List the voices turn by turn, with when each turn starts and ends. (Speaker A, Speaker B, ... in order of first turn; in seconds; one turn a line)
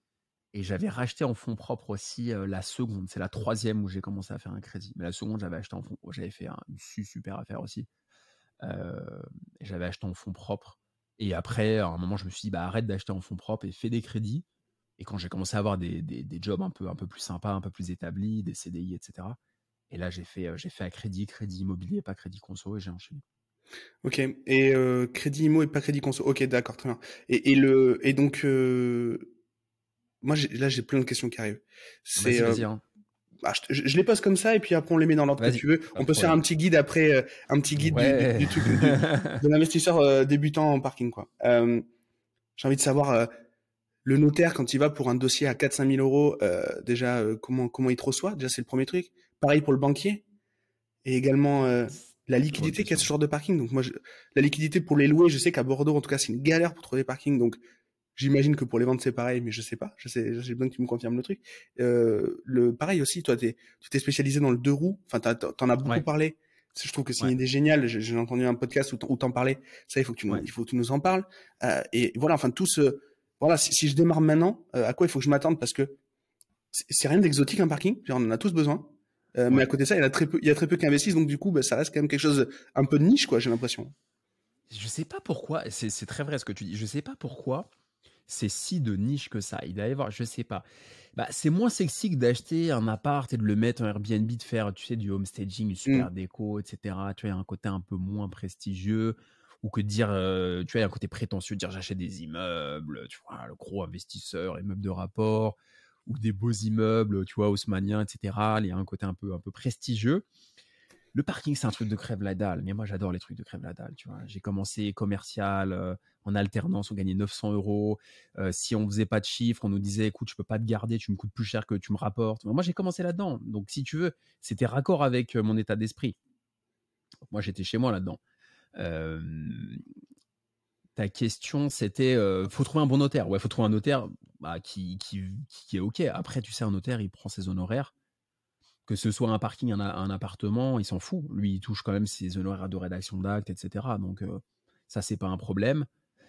Speaker A: 0.5-7.9
Speaker A: 8.6-14.4
Speaker A: 15.0-19.4
Speaker A: 19.9-23.2
Speaker B: 24.0-29.3
Speaker B: 30.2-32.6
Speaker A: 32.2-32.8
Speaker B: 33.4-41.8
Speaker A: 35.4-36.4
Speaker A: 37.8-39.4
Speaker B: 42.6-43.3
Speaker B: 44.0-50.2
Speaker B: 51.0-57.6
Speaker A: 52.5-53.1
Speaker B: 58.1-75.9
Speaker B: 76.7-83.9
Speaker A: 84.7-87.7
Speaker A: 88.3-90.6
Speaker A: 91.2-110.2
Speaker A: 111.1-126.2
Speaker A: 127.3-128.2
Speaker A: 128.8-129.8
Speaker A: 130.9-137.9
Speaker A: 138.9-145.9